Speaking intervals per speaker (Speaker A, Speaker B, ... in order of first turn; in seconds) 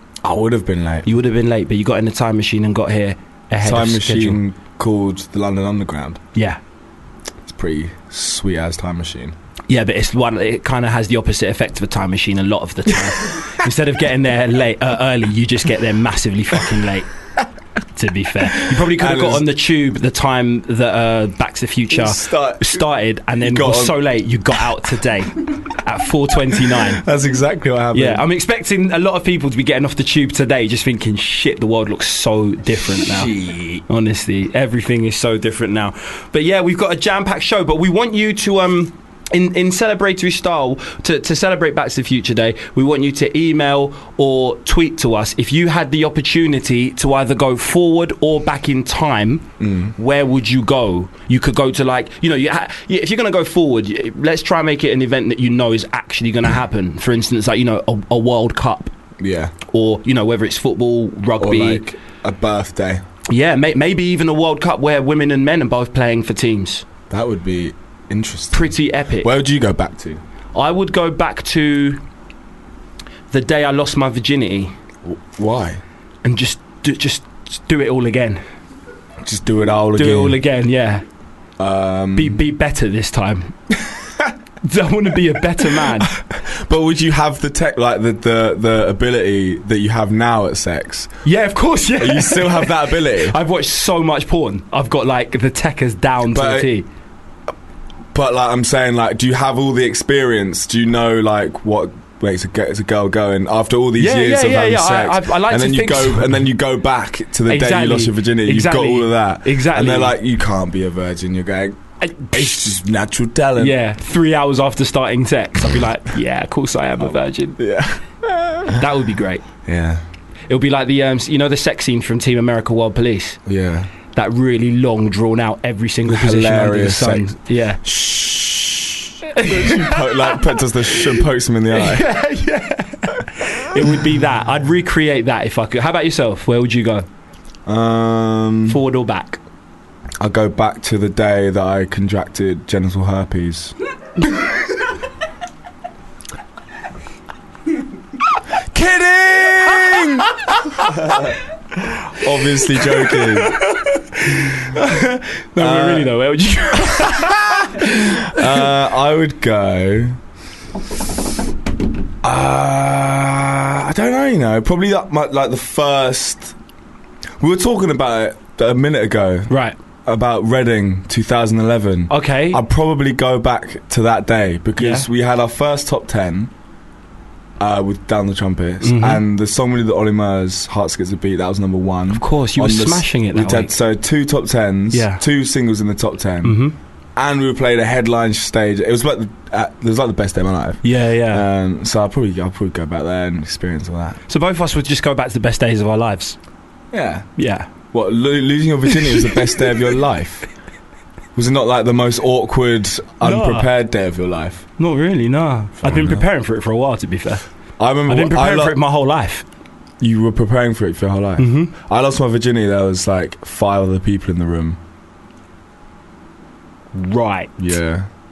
Speaker A: 0.2-1.1, 3.6-6.2, 7.5-9.3, 18.5-19.5, 21.9-22.8, 23.4-24.0, 26.5-28.2, 33.0-33.9, 49.6-50.0, 59.2-59.5, 61.4-63.0, 67.1-70.2, 75.0-75.8, 79.2-80.4, 81.6-82.4, 85.8-91.2, 92.0-93.4, 96.3-96.7, 98.1-111.8, 112.3-113.8, 117.0-118.9, 119.7-120.0, 123.5-123.9, 126.1-132.1, 137.7-138.8, 140.2-143.8, 148.7-153.6, 155.6-156.1, 157.1-160.2, 162.2-166.5, 167.4-169.5, 170.1-176.5, 177.6-186.6, 187.2-194.2, 196.9-197.3, 197.9-200.5, 201.4-204.7, 205.8-206.3, 207.8-208.8, 210.0-214.8, 217.6-218.1
Speaker B: 1.1-4.4, 9.7-17.1, 17.9-27.0, 27.9-33.3, 33.9-58.9, 59.7-61.9, 63.3-66.8, 68.5-69.3, 70.5-72.0, 73.3-74.8, 76.2-78.4, 80.0-81.0, 82.2-83.5, 84.6-86.2, 91.2-96.9, 104.0-106.4, 107.5-110.2, 112.0-112.6, 113.6-117.6, 118.7-119.5, 120.5-123.4, 124.1-127.8, 129.3-130.6, 131.7-137.1, 138.7-139.4, 150.5-151.2, 152.8-157.9, 169.5-169.8, 172.1-172.6, 174.8-175.1, 178.8-179.2, 182.1-183.7, 184.9-185.2, 186.4-186.8, 190.8-191.4, 194.3-196.4, 197.4-197.7, 203.2-203.7, 204.8-207.4, 208.1-209.4, 211.4-211.7, 216.9-217.5